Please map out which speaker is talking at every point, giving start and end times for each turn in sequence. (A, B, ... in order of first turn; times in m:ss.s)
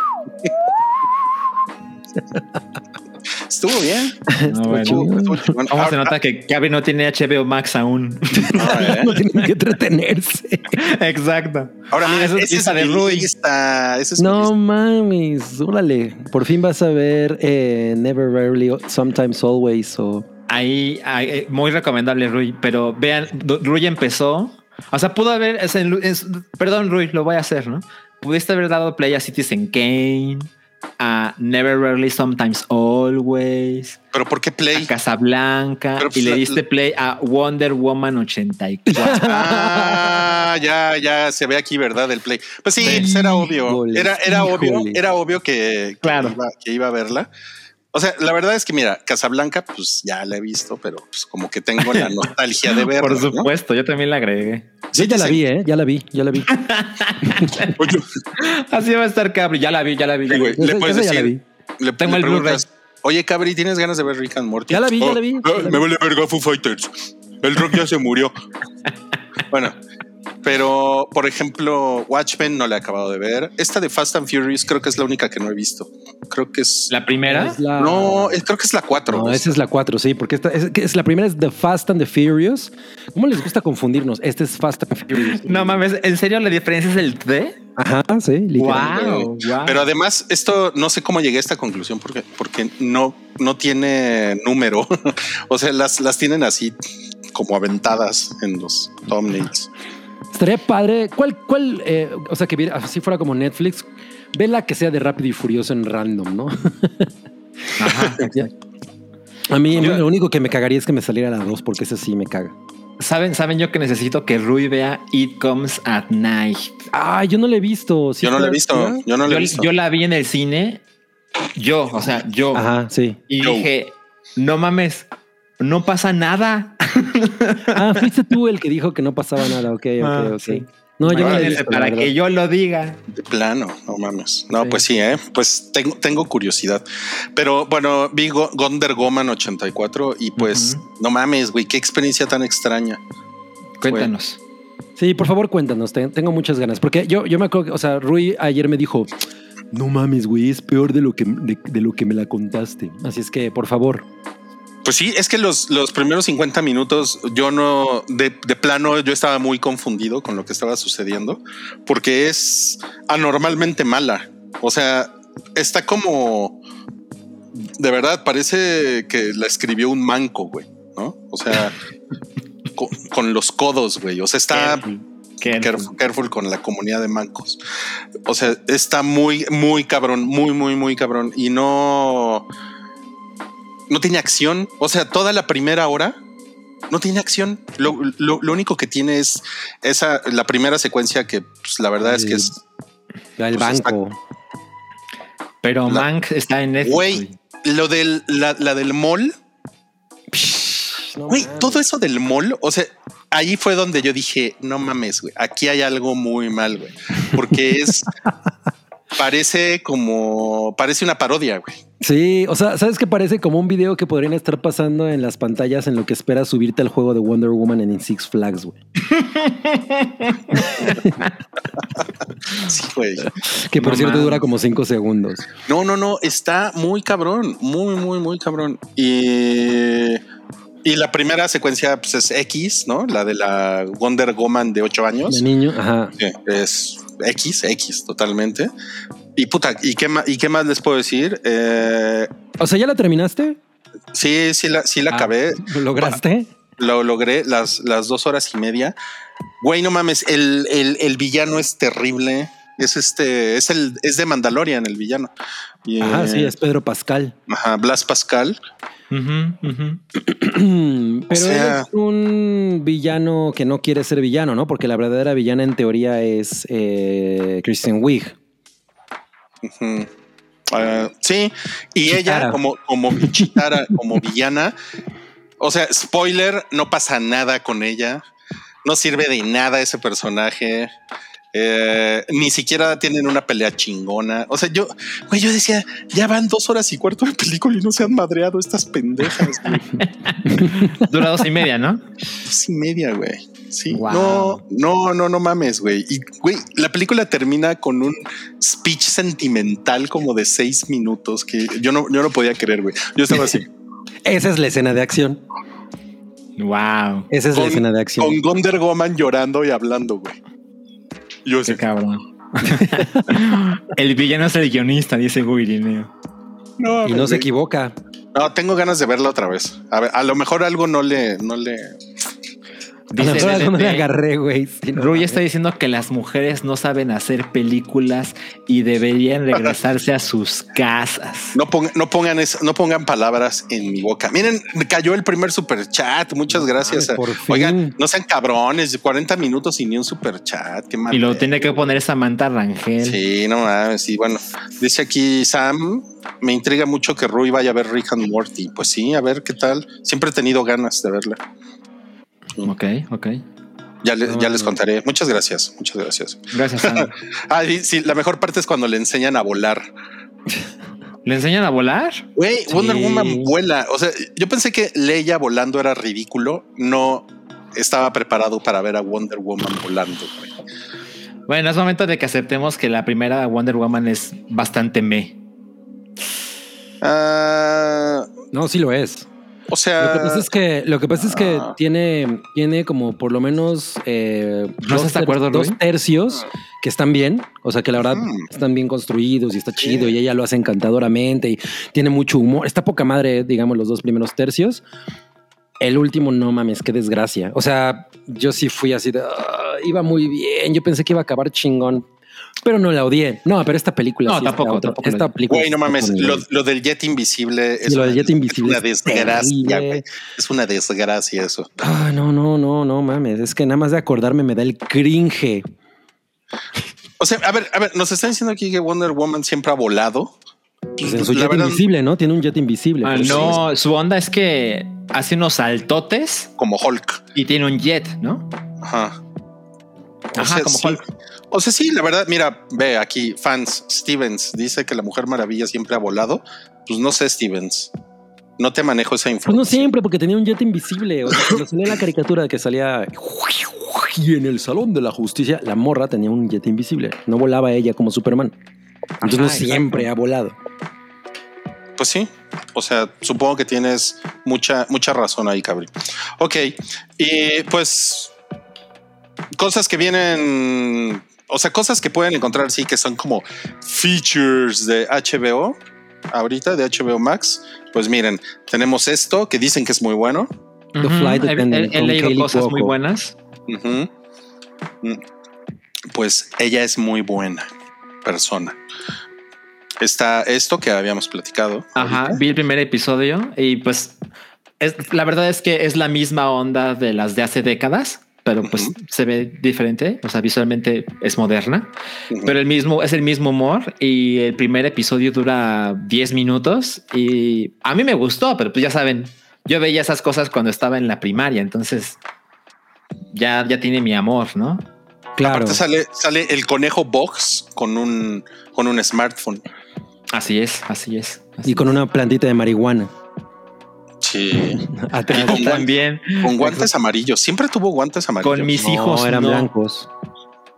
0:03.5-0:06.1 A
0:04.3-0:05.5 B
0:04.5-0:05.1 C
0:05.7-0:08.9 C
0:08.5-0:10.8 B
0:08.5-0:09.2 A
0:10.7-0:13.3 C
0:11.9-0:14.5 A
0:14.2-0:20.2 B
0:20.5-0:34.0 C
0:34.1-0:34.9 A
0:34.7-0:39.3 C
0:36.0-0:36.6 A
0:38.9-0:40.4 B
0:39.0-0:47.3 A
0:42.8-0:45.0 B
0:42.8-0:43.1 C
0:46.0-0:46.4 C
0:47.9-0:53.5 A
0:51.8-0:52.1 C
0:52.7-0:54.7 C
0:54.9-0:55.4 A
0:54.9-0:56.5 B
0:56.5-0:57.8 C
0:57.8-0:58.0 A
0:58.4-1:00.6 C
1:00.3-1:08.3 A
1:00.6-1:01.4 B
1:02.0-1:02.6 C
1:04.7-1:05.8 B
1:09.5-1:09.8 A
1:10.4-1:16.9 A
1:16.9-1:17.6 C
1:17.3-1:18.4 B
1:17.8-1:19.4 A
1:19.1-1:25.8 B
1:25.2-1:27.6 C
1:27.8-1:29.0 B
1:28.6-1:29.9 C
1:28.7-1:36.8 A
1:37.3-1:39.7 A
1:40.3-1:47.1 B
1:47.8-1:48.5 C
1:48.1-1:48.5 B
1:49.5-1:52.5 B
1:53.0-1:56.7 C
1:56.9-1:59.0 B
1:58.2-1:59.7 A
1:59.2-2:00.8 C
2:01.6-2:02.6 C
2:02.5-2:03.2 B
2:03.3-2:05.1 C
2:03.4-2:03.7 A
2:05.6-2:08.0 C
2:07.7-2:12.1 B
2:10.0-2:13.0 C
2:11.1-2:11.6 A
2:13.1-2:16.8 A
2:17.4-2:23.0 A
2:20.4-2:20.8 C
2:23.8-2:24.4 C
2:25.0-2:29.1 B
2:29.7-2:34.0 B
2:34.8-2:46.6 A
2:47.5-2:51.8 A
2:52.8-2:54.8 A
2:54.5-2:55.9 C
2:55.5-2:57.6 A
2:58.2-3:02.4 A
3:03.9-3:06.2 A
3:06.9-3:12.6 A
3:12.0-3:12.5 B
3:13.4-3:14.2 B
3:13.5-3:14.0 A
3:15.6-3:17.3 C
3:16.8-3:19.3 A
3:20.3-3:21.8 B
3:21.3-3:28.1 A
3:29.1-3:31.8 A
3:32.0-3:38.8 B
3:39.1-3:41.0 C
3:40.8-3:41.2 B
3:42.6-3:43.3 A
3:43.4-3:45.4 B
3:43.8-3:44.4 C
3:45.7-3:50.2 A
3:50.8-3:55.4 A
3:55.3-3:56.1 B
3:56.2-3:58.7 A
3:59.4-4:02.3 A
4:02.6-4:03.6 B
4:04.1-4:06.2 A
4:05.1-4:06.5 B
4:06.8-4:08.9 A
4:09.6-4:15.3 A
4:15.8-4:16.5 A
4:16.0-4:17.3 B
4:17.5-4:18.6 A
4:19.1-4:20.0 C
4:20.1-4:28.3 B
4:21.3-4:21.9 A
4:29.6-4:30.1 A
4:30.7-4:34.7 A
4:32.1-4:32.6 B
4:33.2-4:34.0 B
4:35.6-4:38.2 A
4:38.8-4:40.9 A
4:41.5-4:49.9 A
4:49.6-4:52.0 C
4:52.4-5:03.7 A
4:53.9-4:54.6 C
5:04.2-5:05.4 B
5:06.6-5:07.3 C
5:07.3-5:08.4 B
5:07.5-5:10.4 A
5:11.4-5:11.8 A
5:11.6-5:16.1 C
5:16.8-5:17.5 A
5:17.0-5:17.9 B
5:18.3-5:22.0 A
5:23.1-5:24.1 C
5:23.2-5:25.4 B
5:25.0-5:31.6 C
5:31.5-5:41.5 A
5:36.6-5:37.9 B
5:41.1-5:43.2 C
5:43.0-5:51.4 A
5:52.6-5:53.4 C
5:54.0-5:59.9 A
5:54.2-5:54.8 B
5:56.5-5:57.1 C
6:01.2-6:02.2 C
6:02.4-6:10.5 A
6:02.7-6:03.5 B
6:11.5-6:15.4 C
6:17.0-6:18.3 A
6:18.5-6:19.3 B
6:19.7-6:20.5 A
6:20.0-6:34.8 B
6:21.2-6:21.7 A
6:24.8-6:25.8 C
6:28.0-6:28.5 A
6:29.8-6:30.1 A
6:35.8-6:42.0 B
6:42.6-6:46.4 B
6:44.2-6:45.3 C
6:45.5-6:51.7 A
6:47.8-6:50.0 B
6:51.8-6:55.6 B
6:57.2-7:00.3 A
7:01.0-7:01.8 A
7:01.0-7:03.6 B
7:03.0-7:06.5 C
7:03.2-7:03.6 A
7:06.6-7:07.2 A
7:07.3-7:08.4 C
7:08.8-7:09.2 A
7:10.3-7:17.9 A
7:10.4-7:11.0 C
7:18.6-7:19.9 A
7:19.4-7:28.5 B
7:29.2-7:30.6 B
7:29.2-7:30.1 C
7:32.0-7:38.3 A
7:39.6-7:45.8 A
7:46.3-7:50.5 A
7:50.9-7:53.3 C
7:51.0-7:52.9 B
7:53.7-7:54.1 A
7:56.1-7:57.7 A
7:58.2-7:58.8 A
8:00.0-8:02.4 A
8:02.0-8:04.2 C
8:04.8-8:11.9 C
8:08.6-8:08.9 A
8:12.4-8:22.2 C
8:23.3-8:24.8 C
8:25.4-8:25.8 B
8:25.4-8:29.6 A
8:30.3-8:31.9 C
8:31.6-8:33.1 B
8:34.2-8:35.9 A
8:34.6-8:35.8 B
8:35.3-8:36.9 C
8:36.4-8:38.7 A
8:38.4-8:39.7 C
8:38.8-8:40.1 B